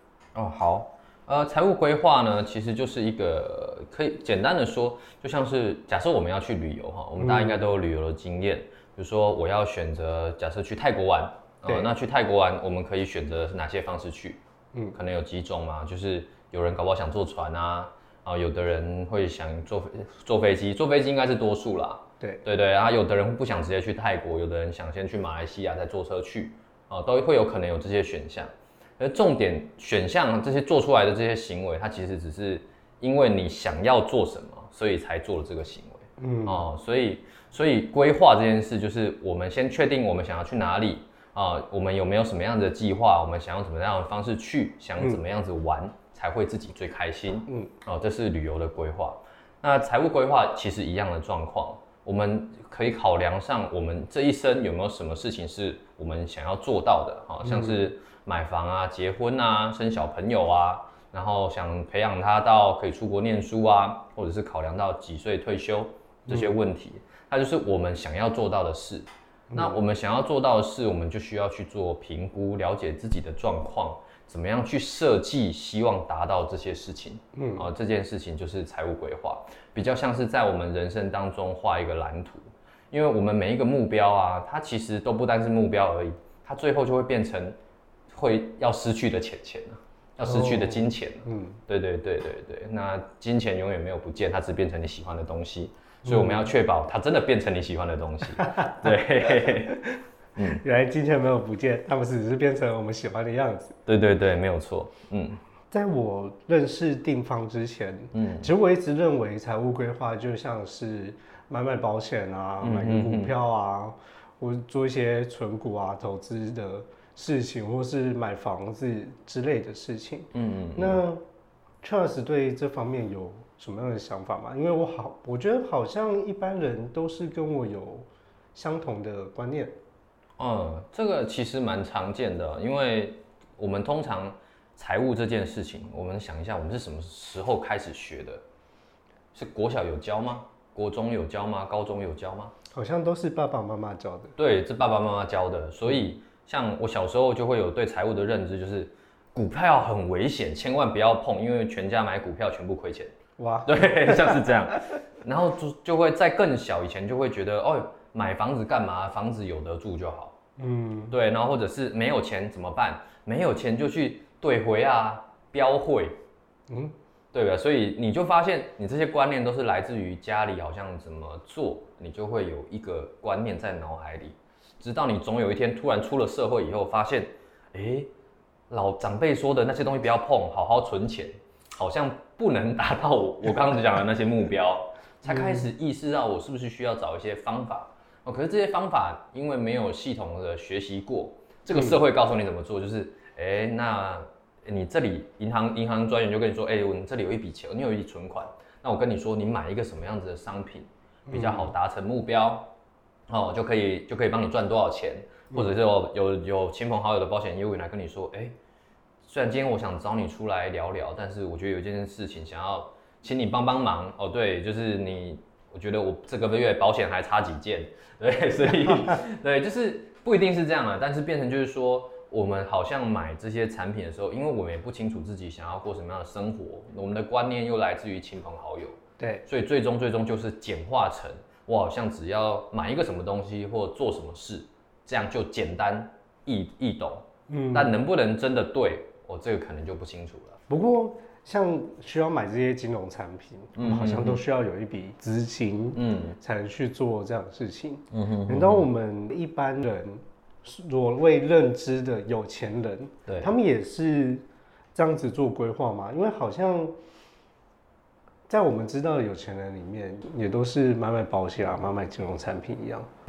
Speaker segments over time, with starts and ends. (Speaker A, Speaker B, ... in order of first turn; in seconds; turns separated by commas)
Speaker A: 0.3-14.4, Speaker B: 7.2-7.6, Speaker A: 14.9-87.6, Speaker B: 36.2-36.7, Speaker B: 57.4-57.8, Speaker B: 66.3-66.5, Speaker B: 69.5-69.8, Speaker B: 77.3-77.7, Speaker A: 88.1-99.8, Speaker B: 90.2-91.6, Speaker B: 96.0-96.5, Speaker B: 98.4-103.8, Speaker A: 100.4-100.6, Speaker A: 103.9-105.4, Speaker B: 105.7-121.2, Speaker A: 108.1-108.5, Speaker A: 112.6-113.3, Speaker A: 120.3-121.0, Speaker B: 121.8-129.8, Speaker A: 130.4-138.4, Speaker A: 139.3-142.5, Speaker B: 142.7-144.3, Speaker A: 144.4-153.1, Speaker B: 153.4-154.9, Speaker A: 153.7-160.4, Speaker B: 160.6-161.1, Speaker A: 161.1-166.2, Speaker B: 166.7-166.9, Speaker A: 167.3-178.1, Speaker A: 178.7-202.7, Speaker B: 185.3-185.7, Speaker B: 191.7-192.0, Speaker B: 201.3-201.7, Speaker A: 203.3-208.6, Speaker A: 209.2-240.6, Speaker B: 218.8-219.2, Speaker B: 229.2-229.4, Speaker B: 237.5-238.0, Speaker B: 240.7-256.9, Speaker A: 243.8-244.4, Speaker A: 245.9-246.4, Speaker A: 248.1-248.9, Speaker A: 253.3-253.5, Speaker B: 258.5-263.1